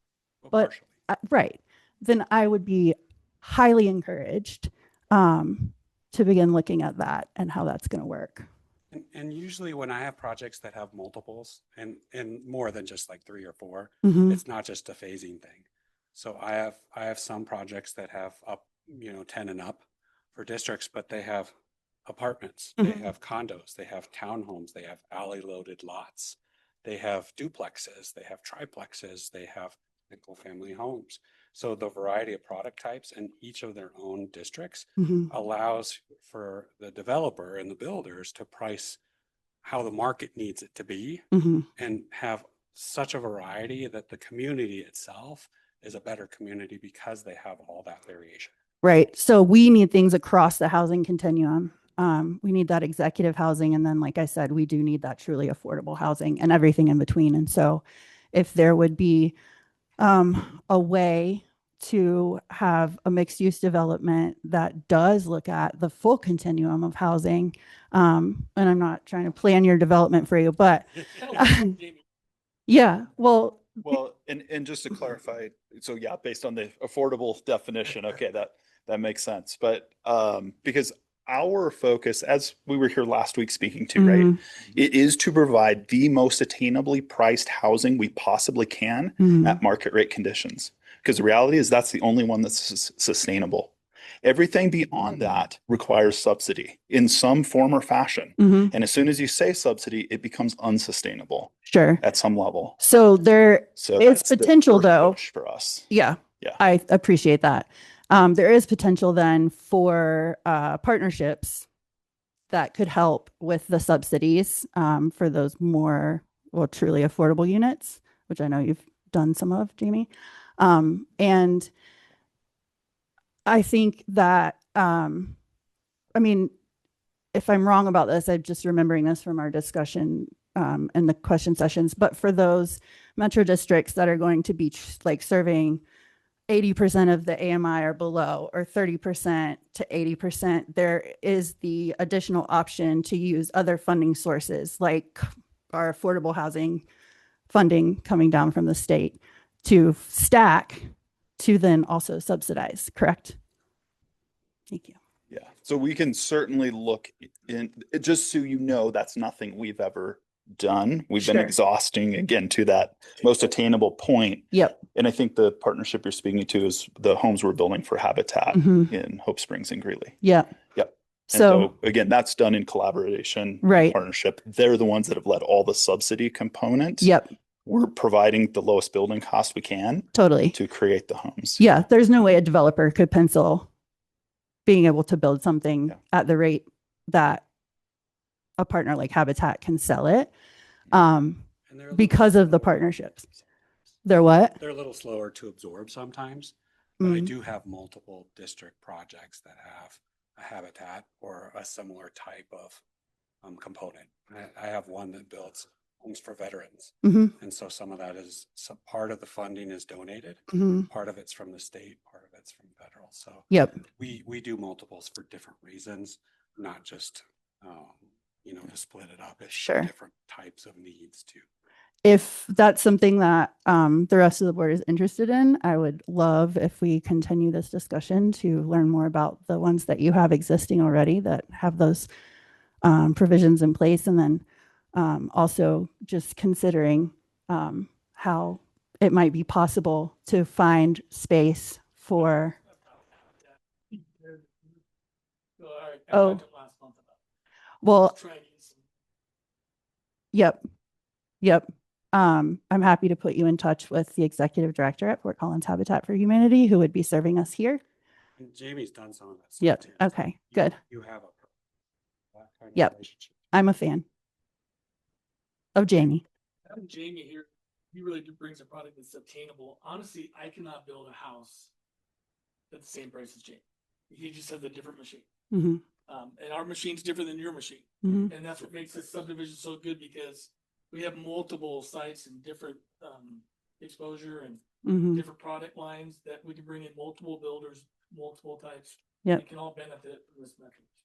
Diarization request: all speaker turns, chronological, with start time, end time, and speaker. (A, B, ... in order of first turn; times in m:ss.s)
0:00.4-0:00.9 A
0:00.5-0:08.5 B
0:08.9-0:19.8 A
0:14.0-0:14.4 B
0:20.3-0:21.5 A
0:22.1-0:39.0 A
0:22.8-0:23.0 B
0:35.0-0:35.3 B
0:39.6-0:48.5 A
0:41.3-0:41.7 B
0:48.8-0:59.4 B
1:00.0-1:11.7 B
1:11.2-1:12.0 C
1:12.7-1:14.0 B
1:13.8-1:33.7 D
1:24.0-1:24.4 B
1:29.2-1:29.6 B
1:34.2-1:42.8 D
1:38.4-1:38.7 B
1:41.6-1:42.0 B
1:42.8-1:45.2 B
1:43.8-1:45.9 D
1:45.9-1:51.7 B
1:52.5-2:01.7 B
2:03.5-2:05.4 B
2:06.2-2:06.5 B
2:07.3-2:15.8 B
2:16.5-2:26.9 B
2:27.5-2:33.4 B
2:34.7-2:35.0 B
2:35.3-2:50.2 D
2:41.2-2:41.5 B
2:44.5-2:44.8 B
2:48.5-2:48.9 B
2:50.2-2:50.5 B
2:50.7-2:57.1 D
2:51.3-2:51.7 B
2:53.6-2:54.0 B
2:57.0-2:57.3 B
2:57.7-3:01.6 D
3:00.1-3:00.6 B
3:01.6-3:03.7 B
3:04.7-3:07.4 B
3:08.6-3:10.3 B
3:10.9-3:13.2 B
3:11.7-3:13.3 A
3:14.0-3:14.6 B
3:14.6-3:22.8 A
3:17.0-3:17.3 B
3:23.4-3:41.4 A
3:27.0-3:27.4 B
3:30.5-3:30.9 B
3:33.5-3:33.8 B
3:39.5-3:39.9 B
3:42.0-3:52.1 B
3:52.8-4:02.6 B
4:02.8-4:04.5 C
4:05.6-4:07.2 C
4:06.1-4:06.4 B
4:07.8-4:08.1 B
4:08.0-4:08.8 C
4:10.3-4:10.6 B
4:11.4-4:17.8 B
4:18.4-4:21.5 A
4:19.6-4:20.8 B
4:22.3-4:23.5 A
4:23.5-4:24.0 B
4:25.8-4:26.2 B
4:26.7-4:31.7 C
4:32.7-4:35.2 C
4:35.5-4:35.8 B
4:36.1-4:44.6 C
4:38.0-4:38.3 B
4:44.8-4:45.2 B
4:45.1-4:50.9 C